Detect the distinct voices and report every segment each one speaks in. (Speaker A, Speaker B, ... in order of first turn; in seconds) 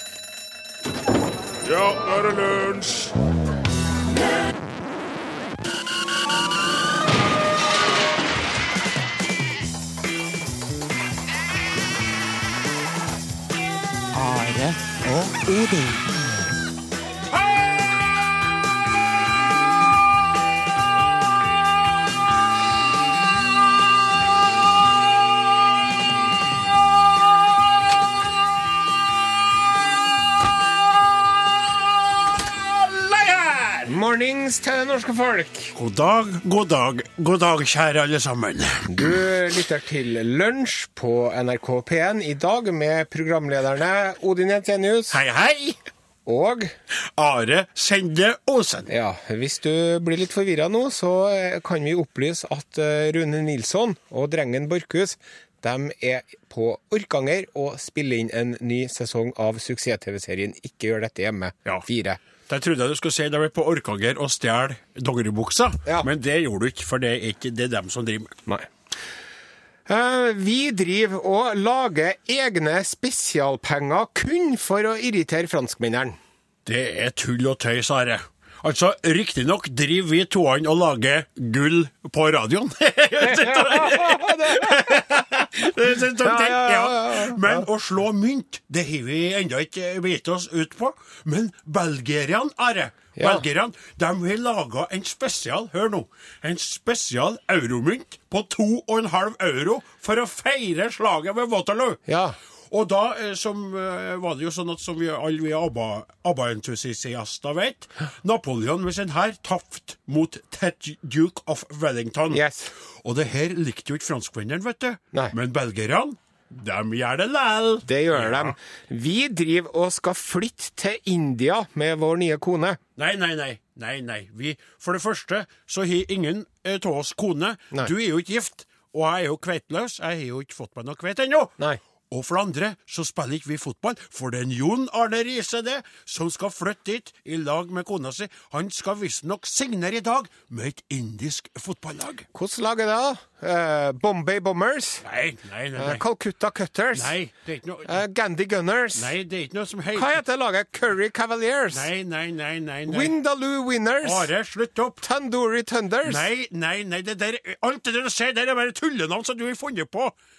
Speaker A: 1.6-3.1, 32.7-33.9, 35.8-39.2, 45.1-45.8, 47.1-48.9, 62.5-68.4, 76.7-102.0, 102.7-118.6, 123.0-131.5, 132.1-142.3, 145.0-146.0, 146.9-148.0, 149.0-150.2, 151.7-153.1, 154.0-155.0, 156.0-160.1
Speaker B: 14.2-16.5
Speaker C: 33.9-35.7, 38.9-45.2, 46.3-46.8, 48.9-62.2, 69.9-76.2, 83.2-85.2, 86.0-87.7, 93.2-93.5, 102.1-102.4, 112.3-112.7, 117.8-122.8, 142.3-145.1, 145.8-147.2, 147.9-149.1, 149.9-151.9, 152.9-154.3, 155.0-156.3